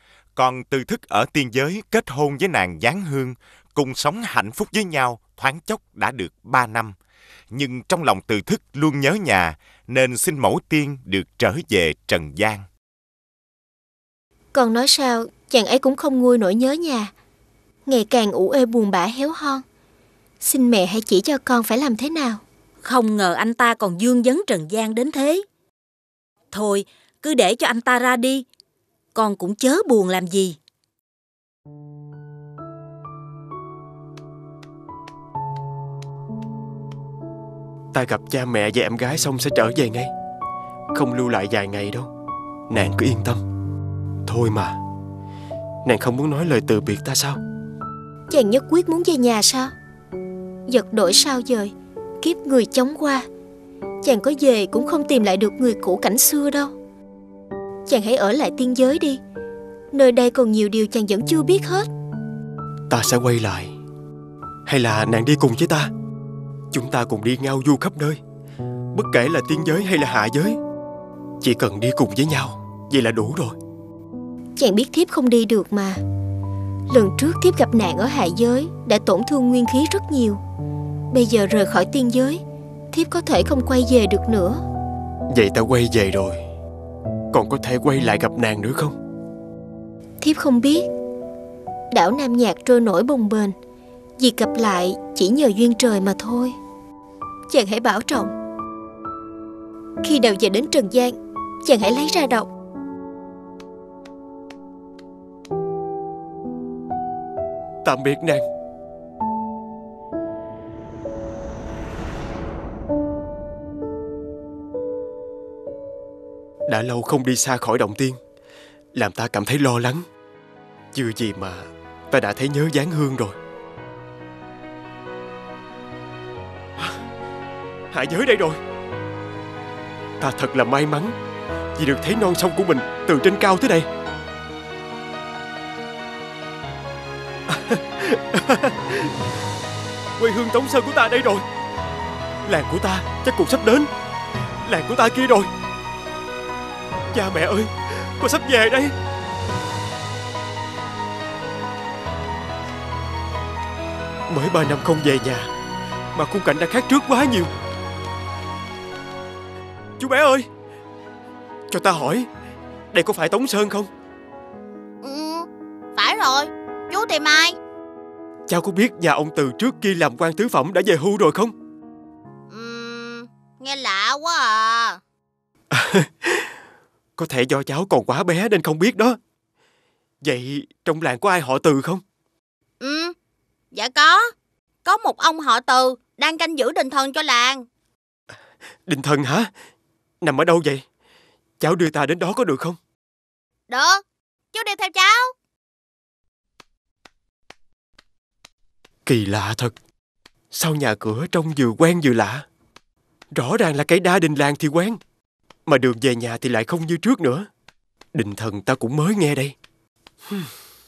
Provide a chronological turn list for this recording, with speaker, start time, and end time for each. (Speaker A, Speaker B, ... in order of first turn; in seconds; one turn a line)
Speaker A: 0.4-7.0
Speaker A: 7.5-12.6
Speaker B: 14.5-17.1
Speaker B: 17.9-19.6
Speaker B: 20.4-22.4
Speaker C: 22.8-25.4
Speaker C: 26.5-28.4
Speaker C: 29.1-30.6
Speaker D: 37.9-40.1
Speaker D: 40.9-42.1
Speaker D: 42.7-43.4
Speaker D: 44.2-44.8
Speaker D: 45.8-47.4
Speaker B: 48.3-49.7
Speaker B: 50.7-53.3
Speaker B: 54.0-56.7
Speaker B: 57.9-59.2
Speaker B: 59.9-61.9
Speaker D: 62.9-63.7
Speaker D: 64.7-65.9
Speaker D: 66.7-68.2
Speaker D: 68.9-70.6
Speaker D: 71.4-73.6
Speaker B: 74.6-76.0
Speaker B: 76.9-80.4
Speaker B: 81.1-82.4
Speaker B: 82.9-84.6
Speaker D: 85.3-86.4
Speaker D: 87.3-89.0
Speaker B: 90.2-90.9
Speaker B: 91.9-93.5
Speaker B: 94.2-96.5
Speaker B: 97.5-98.3
Speaker B: 100.0-102.5
Speaker D: 107.8-108.4
Speaker D: 116.7-118.2
Speaker D: 118.9-120.0
Speaker D: 120.9-123.4
Speaker D: 127.9-128.6
Speaker D: 130.2-131.2
Speaker D: 131.8-133.9
Speaker D: 137.5-139.1
Speaker D: 140.2-141.4
Speaker D: 142.5-143.9
Speaker D: 144.7-145.5
Speaker D: 147.1-148.9
Speaker D: 154.3-155.5
Speaker D: 156.2-157.5
Speaker D: 160.0-160.5
Speaker D: 161.7-162.3
Speaker D: 162.9-163.9
Speaker E: 165.0-167.6
Speaker D: 168.5-171.5
Speaker E: 172.5-175.0
Speaker D: 175.7-176.5
Speaker D: 177.2-179.2
Speaker D: 180.2-182.0
Speaker E: 182.8-183.1
Speaker E: 183.7-184.3
Speaker E: 184.8-187.7
Speaker D: 188.9-189.5
Speaker D: 190.2-190.8
Speaker D: 191.6-192.8
Speaker E: 193.7-194.0
Speaker E: 194.5-195.3
Speaker D: 199.1-199.7
Speaker D: 200.5-202.4
Speaker D: 203.3-205.0
Speaker D: 205.7-207.5
Speaker D: 208.1-209.5